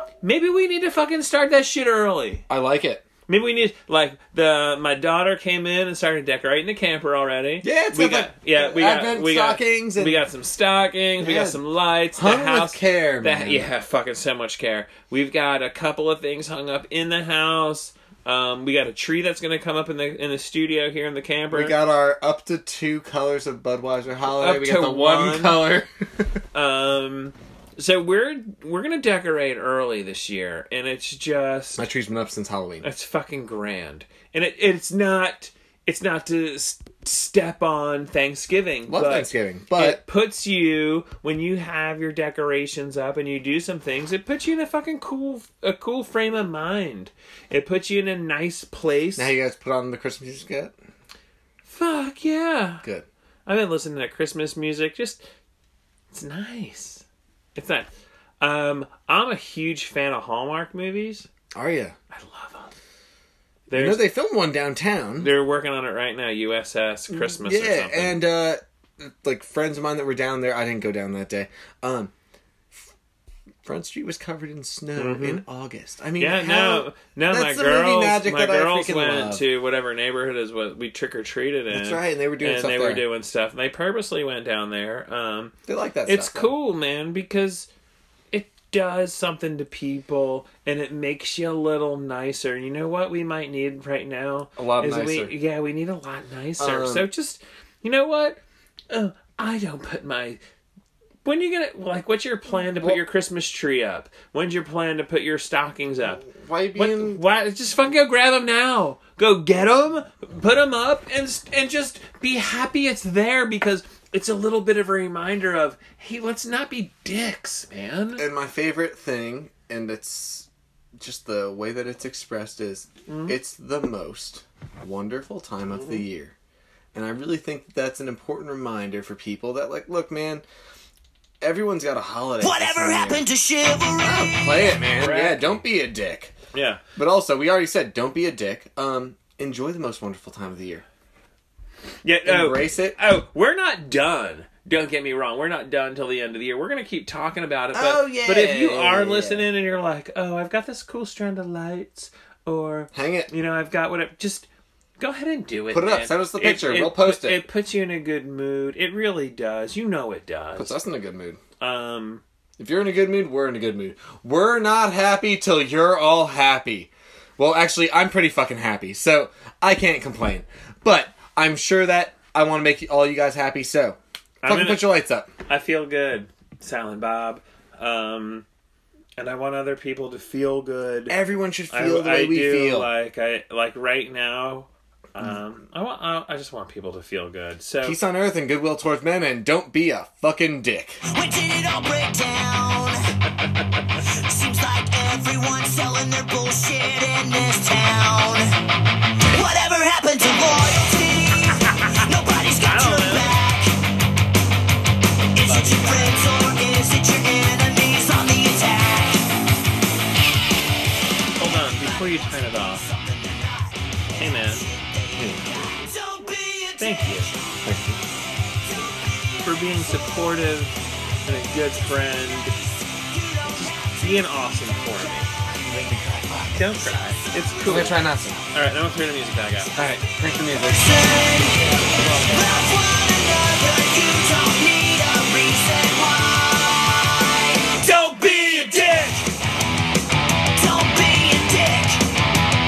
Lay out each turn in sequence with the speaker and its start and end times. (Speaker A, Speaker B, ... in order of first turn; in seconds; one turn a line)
Speaker A: 0.2-2.5
Speaker B: 2.5-3.0
Speaker A: 3.3-21.8
Speaker B: 7.6-10.2
Speaker B: 11.2-11.6
Speaker B: 12.1-13.7
Speaker B: 21.5-26.4
Speaker A: 24.3-25.7
Speaker A: 26.5-31.9
Speaker B: 31.8-32.9
Speaker A: 32.8-49.3
Speaker B: 38.9-40.0
Speaker B: 49.2-50.8
Speaker A: 51.6-52.8
Speaker A: 53.5-55.2
Speaker A: 56.1-57.0
Speaker A: 57.6-57.9
Speaker A: 58.4-61.3
Speaker B: 61.5-62.0
Speaker A: 62.1-62.8
Speaker A: 63.7-64.1
Speaker B: 63.7-65.3
Speaker A: 65.2-68.2
Speaker B: 67.1-72.1
Speaker B: 73.6-79.5
Speaker A: 75.0-75.4
Speaker A: 76.2-85.5
Speaker B: 81.7-83.1
Speaker B: 85.7-86.5
Speaker A: 86.1-87.7
Speaker A: 88.3-100.4
Speaker B: 94.6-95.3
Speaker B: 96.6-97.1
Speaker A: 101.2-118.2
Speaker B: 102.5-103.0
Speaker B: 106.0-107.2
Speaker B: 118.2-126.3
Speaker A: 123.1-123.4
Speaker B: 126.9-130.4
Speaker B: 131.4-133.2
Speaker C: 132.4-134.7
Speaker B: 134.0-136.3
Speaker A: 135.0-135.6
Speaker A: 136.5-136.8
Speaker B: 137.0-140.8
Speaker A: 142.0-154.5
Speaker B: 142.2-143.0
Speaker B: 147.7-149.5
Speaker B: 152.9-153.3
Speaker A: 155.0-160.8
Speaker B: 155.7-157.5
Speaker B: 160.6-161.4
Speaker A: 161.6-162.2
Speaker B: 162.6-175.3
Speaker A: 174.4-178.4
Speaker A: 179.2-181.2
Speaker B: 181.1-182.9
Speaker A: 181.7-188.0
Speaker B: 187.8-191.0
Speaker C: 191.1-193.0
Speaker C: 194.1-198.5
Speaker C: 199.3-203.8
Speaker A: 202.6-203.4
Speaker C: 205.3-209.3
Speaker A: 205.4-206.3
Speaker A: 211.4-212.9
Speaker C: 211.4-217.4
Speaker A: 214.2-214.7
Speaker B: 215.1-215.7
Speaker A: 216.8-217.3
Speaker B: 217.6-218.0
Speaker A: 219.4-222.6
Speaker C: 221.6-227.9
Speaker A: 223.6-225.3
Speaker B: 225.7-226.5
Speaker A: 226.4-230.0
Speaker B: 227.7-228.5
Speaker B: 229.8-231.2
Speaker C: 229.8-239.2
Speaker A: 231.6-232.6
Speaker A: 237.8-239.2
Speaker C: 240.6-242.1